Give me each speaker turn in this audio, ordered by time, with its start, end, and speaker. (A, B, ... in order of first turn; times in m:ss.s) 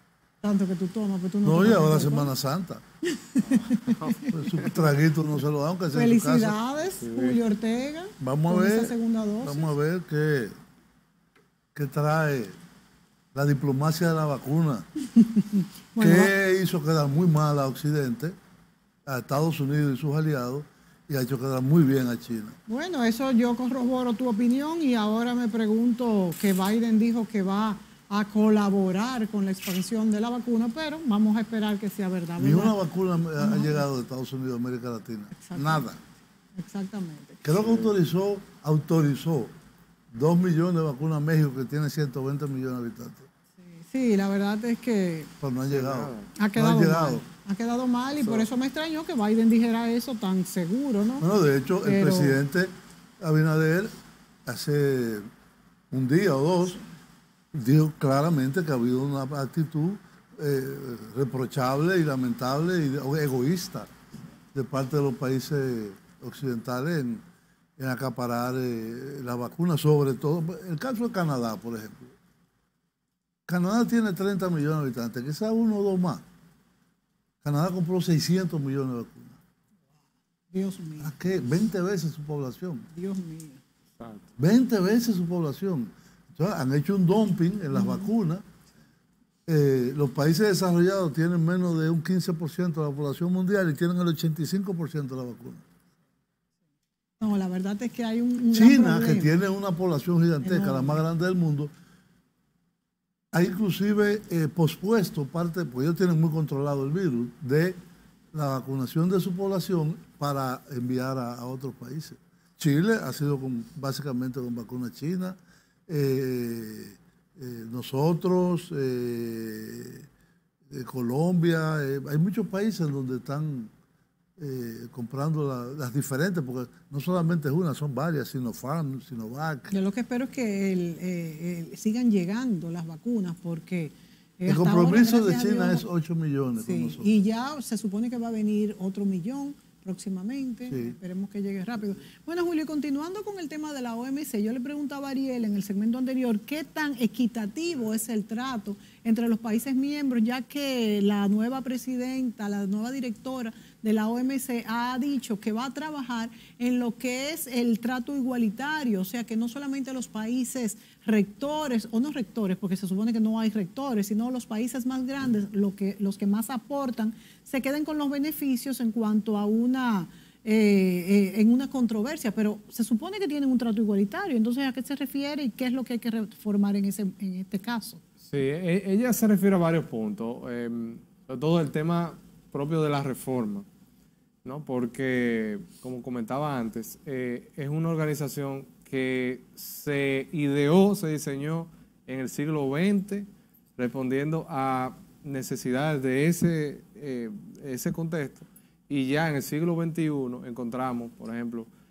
0:00.4-0:02.3 A
0:01.4-0:02.8 B
0:03.0-0:04.6 A
0:03.4-0:04.7 C
0:04.3-0:06.6 B
0:05.9-0:09.7 A
0:07.0-0:07.4 C
0:08.2-0:10.5 B
0:11.7-0:12.6 B
0:13.3-0:14.9 B
0:15.2-0:16.3 A
0:16.0-0:18.4 B
0:19.0-0:22.6 B
0:22.7-0:32.8 A
0:32.4-0:36.0 B
0:33.4-0:33.8 A
0:35.3-0:35.8 A
0:36.6-0:37.4 A
0:37.4-0:39.5 B
0:37.6-0:37.9 C
0:40.1-0:43.3 B
0:43.7-0:45.3 A
0:45.4-0:47.2 B
0:45.7-0:46.3 C
0:46.4-0:51.2 A
0:48.2-0:48.4 C
0:51.2-0:53.9 B
0:51.8-0:52.4 A
0:54.4-0:55.3 B
0:55.9-0:56.8 B
0:57.5-1:03.9 B
1:04.5-1:07.2 B
1:07.8-1:12.1 B
1:13.5-1:16.2 B
1:17.4-1:19.4 B
1:20.5-1:21.2 A
1:21.0-1:22.9 B
1:22.9-1:23.6 A
1:24.0-1:24.3 C
1:24.4-1:28.4 B
1:27.7-1:28.1 A
1:29.5-1:35.6 B
1:37.2-1:39.3 A
1:38.5-1:41.7 B
1:40.4-1:41.0 A
1:43.3-1:47.8 B
1:48.3-2:00.0 B
2:00.7-2:03.7 B
2:04.4-2:09.7 B
2:09.7-2:15.8 A
2:14.5-2:17.1 B
2:16.6-2:58.0 A
2:20.7-2:20.9 B
2:58.2-3:03.7 C
3:04.4-3:21.7 C